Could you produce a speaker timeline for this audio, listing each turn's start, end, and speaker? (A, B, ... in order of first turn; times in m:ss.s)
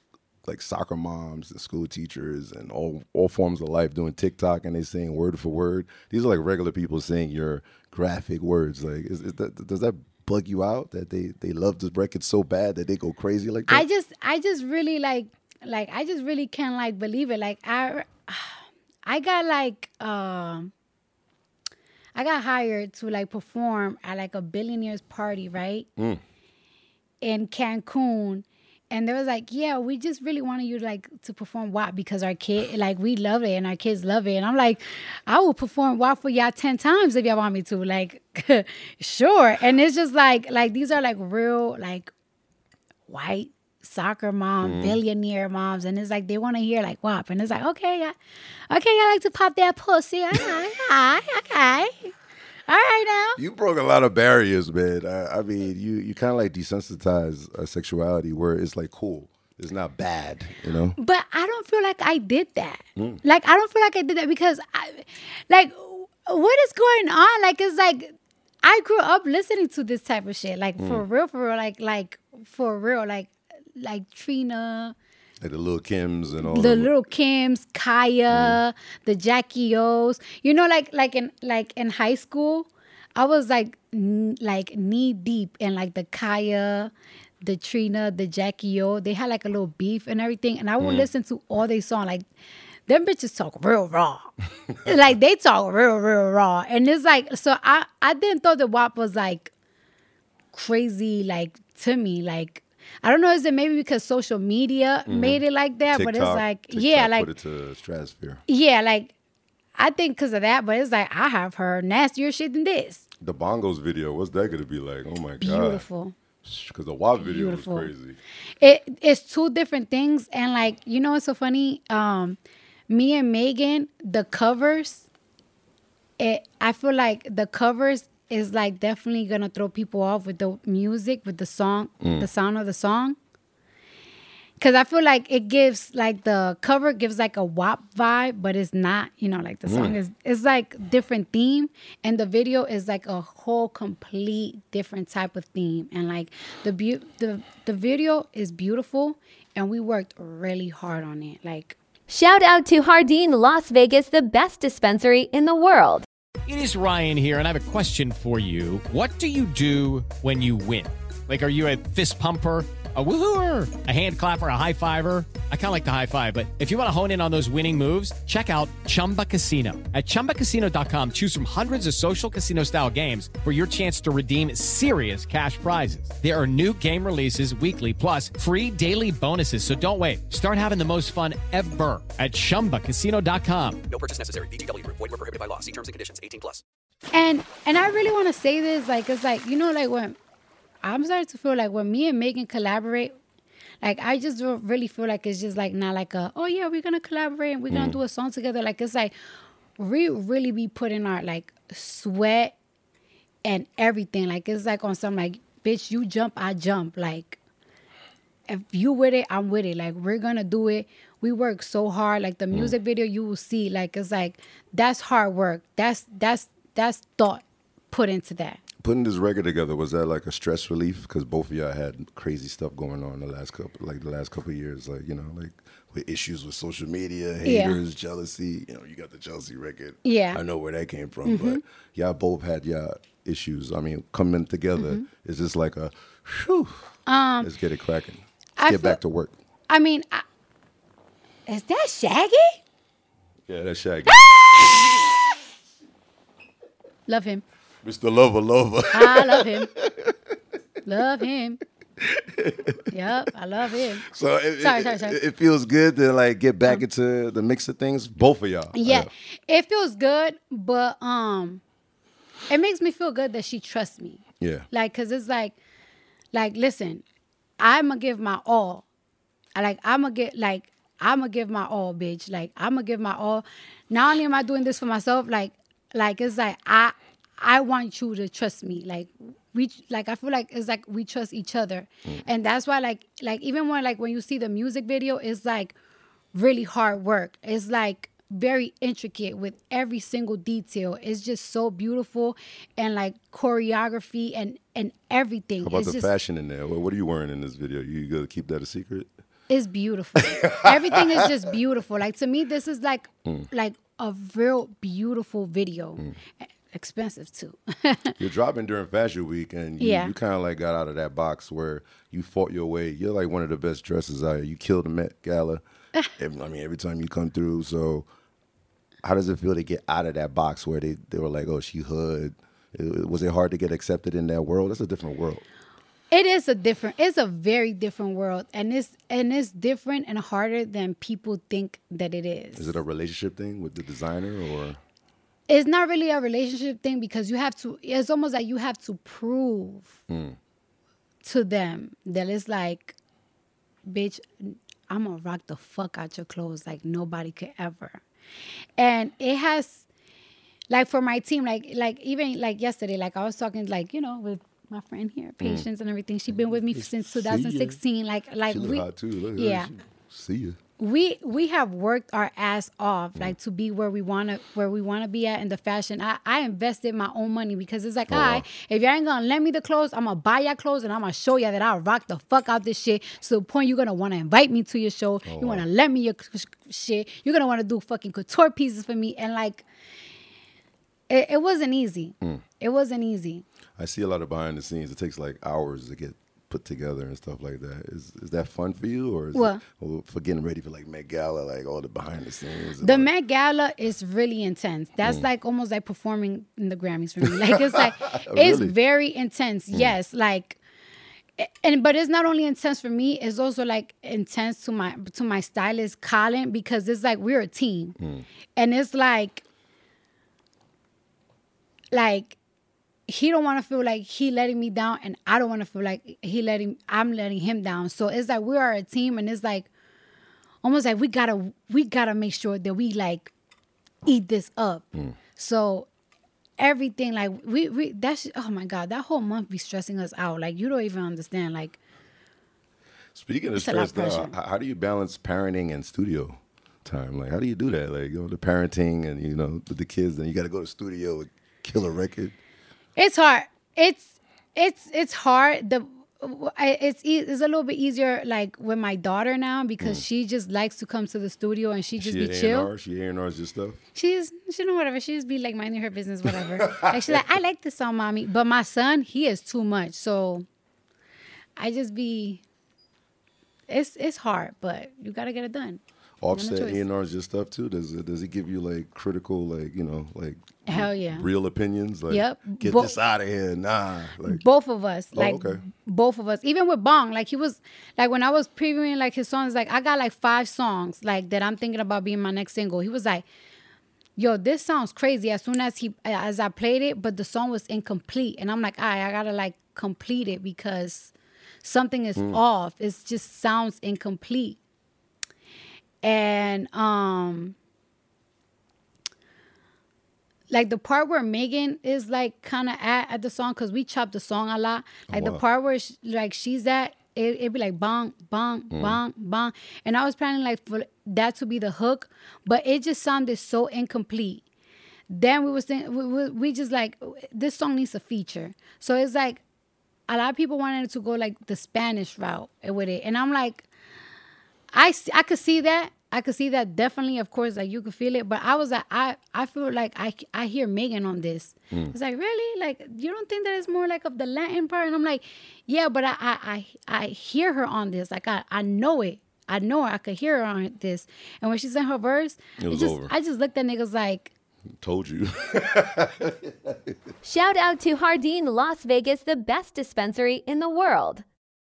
0:00.4-0:13.8 A
0:13.7-0:20.7 B
0:22.1-0:25.9 B
0:27.2-0:42.1 B
0:43.1-0:48.2 B
0:44.6-0:45.0 A
0:48.7-0:52.1 B
0:52.7-0:53.4 B
0:53.4-1:01.0 A
1:01.0-1:14.9 B
1:03.0-1:03.2 A
1:10.8-1:11.0 A
1:15.4-1:16.9 A
1:16.4-1:32.3 B
1:18.3-1:18.6 A
1:30.8-1:31.1 A
1:32.9-1:39.5 B
1:40.5-1:47.3 B
1:45.0-1:48.4 A
1:48.5-1:49.1 B
1:49.8-1:53.1 B
1:53.2-1:55.8 A
1:55.4-1:56.2 B
1:56.4-1:58.2 A
1:57.2-1:57.9 B
1:58.6-2:02.4 B
2:02.9-2:05.0 B
2:06.2-2:13.2 B
2:12.0-2:12.3 A
2:14.6-2:31.8 B
2:19.6-2:20.0 A
2:32.1-2:36.0 C
2:36.5-3:03.8 D
3:03.9-3:06.6 E
3:07.1-3:10.2 B
3:10.8-3:13.2 B
3:13.8-3:19.1 B
3:17.7-3:18.0 A
3:19.8-3:22.5 B
3:23.4-3:27.4 B
3:28.5-3:38.6 B
3:38.8-3:56.9 A
3:47.4-3:47.8 B
3:50.0-3:50.4 B
3:51.2-3:51.6 B
3:54.8-3:55.0 B
3:57.1-3:57.5 B
3:57.4-3:59.4 A
3:58.6-3:59.0 B
3:59.7-4:00.2 B
4:01.5-4:02.6 B
4:03.5-4:04.7 A
4:07.1-4:07.4 B
4:07.8-4:10.1 A
4:08.9-4:09.7 B
4:10.8-4:11.6 B
4:12.0-4:12.8 A
4:12.9-4:14.0 B
4:14.0-4:19.1 A
4:14.6-4:15.2 B
4:18.7-4:21.6 B
4:22.5-4:25.6 B
4:24.4-4:24.7 A
4:26.3-4:27.0 B
4:27.6-4:28.8 B
4:29.5-4:45.7 B
4:46.3-4:56.1 B
4:55.6-4:59.1 A
4:59.5-5:08.1 B
5:00.2-5:01.2 A
5:08.2-5:15.6 A
5:09.8-5:10.1 B
5:16.2-5:18.1 A
5:19.0-5:25.4 A
5:26.1-5:32.8 B
5:32.6-5:34.8 A
5:35.5-5:40.0 B
5:40.1-5:40.4 A
5:41.2-5:43.0 B
5:43.9-5:48.0 B
5:48.8-5:49.8 B
5:50.7-5:59.7 B
5:55.4-5:55.6 A
5:56.7-5:57.8 A
5:58.5-6:00.6 A
6:00.8-6:19.6 B
6:08.1-6:08.5 A
6:15.2-6:15.6 A
6:21.1-6:23.4 B
6:23.8-6:33.1 A
6:29.3-6:29.6 B
6:32.8-6:40.6 B
6:37.5-6:38.7 A
6:41.4-6:48.0 B
6:48.0-6:48.2 A
6:48.6-6:49.4 B
6:51.9-6:52.4 B
6:53.1-6:59.7 B
7:00.6-7:03.3 B
7:04.0-7:05.9 B
7:06.6-7:11.8 B
7:13.1-7:22.4 A
7:13.5-7:14.3 B
7:23.0-7:32.7 B
7:29.8-7:30.0 A
7:32.0-7:33.8 A
7:33.9-7:40.4 B
7:41.6-7:42.4 B
7:43.7-7:45.8 B
7:46.2-7:54.4 A
7:46.3-7:46.8 B
7:50.7-7:51.2 B
7:52.1-7:53.0 B
7:54.2-8:03.2 B
7:55.1-7:55.6 A
8:04.2-8:11.1 B
8:11.6-8:14.6 B
8:16.0-8:17.5 B
8:20.5-8:34.4 B
8:25.1-8:25.4 A
8:28.7-8:29.0 A
8:35.1-8:39.4 B
8:40.1-8:43.7 B
8:44.7-9:04.3 B
9:02.6-9:03.1 A
9:04.8-9:06.5 A
9:07.2-9:11.2 C